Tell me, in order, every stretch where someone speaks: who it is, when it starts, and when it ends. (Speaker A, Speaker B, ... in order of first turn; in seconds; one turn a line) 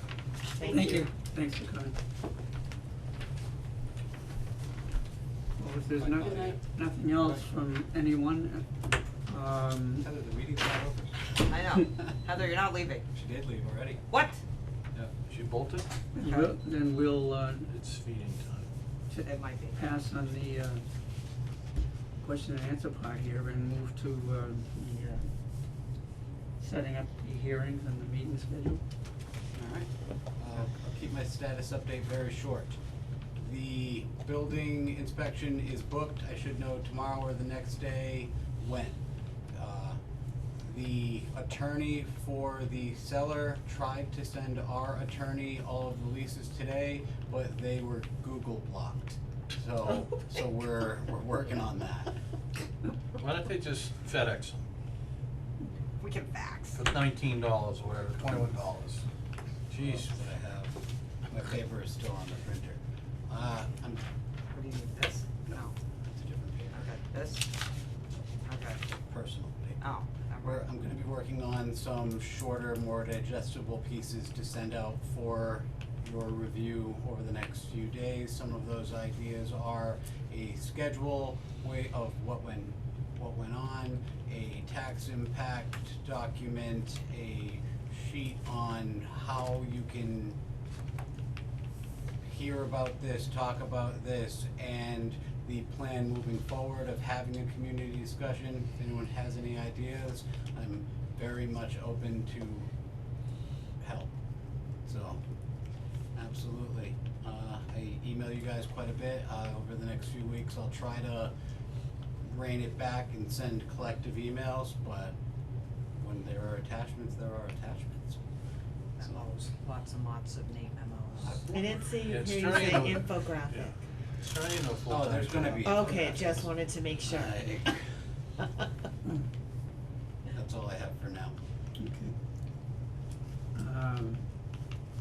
Speaker A: 0.5-1.1
Speaker B: 0.6-2.0
Speaker B: 5.6-8.7
Speaker C: 5.9-6.6
Speaker C: 7.1-7.4
Speaker B: 9.3-10.1
Speaker C: 10.0-11.3
Speaker D: 11.4-13.1
Speaker C: 13.1-14.0
Speaker D: 14.1-14.4
Speaker E: 15.3-15.9
Speaker B: 16.1-17.7
Speaker D: 16.2-16.5
Speaker E: 17.7-18.7
Speaker D: 19.1-19.8
Speaker A: 19.5-19.8
Speaker B: 19.8-20.8
Speaker B: 22.2-25.2
Speaker B: 26.6-28.8
Speaker C: 29.5-32.8
Speaker C: 33.4-39.0
Speaker C: 39.5-40.0
Speaker C: 40.7-52.1
Speaker E: 53.2-54.6
Speaker D: 56.0-56.8
Speaker E: 56.7-59.1
Speaker E: 59.7-60.1
Speaker C: 59.8-64.0
Speaker D: 64.5-65.8
Speaker C: 65.5-66.8
Speaker D: 66.7-67.5
Speaker D: 68.5-68.9
Speaker C: 69.1-69.8
Speaker D: 69.8-70.7
Speaker C: 70.4-90.4
Speaker C: 92.2-102.7
Speaker C: 103.8-104.1
Speaker C: 104.9-105.2
Speaker C: 106.2-111.3
Speaker C: 112.2-115.2
Speaker C: 116.0-118.2
Speaker D: 119.0-121.6
Speaker C: 119.0-119.3
Speaker C: 121.2-121.9
Speaker A: 121.5-123.7
Speaker E: 122.0-126.1
Speaker C: 124.9-127.8
Speaker A: 125.6-127.5
Speaker A: 128.4-128.7
Speaker C: 130.3-131.4
Speaker B: 131.8-132.1
Speaker B: 133.6-134.2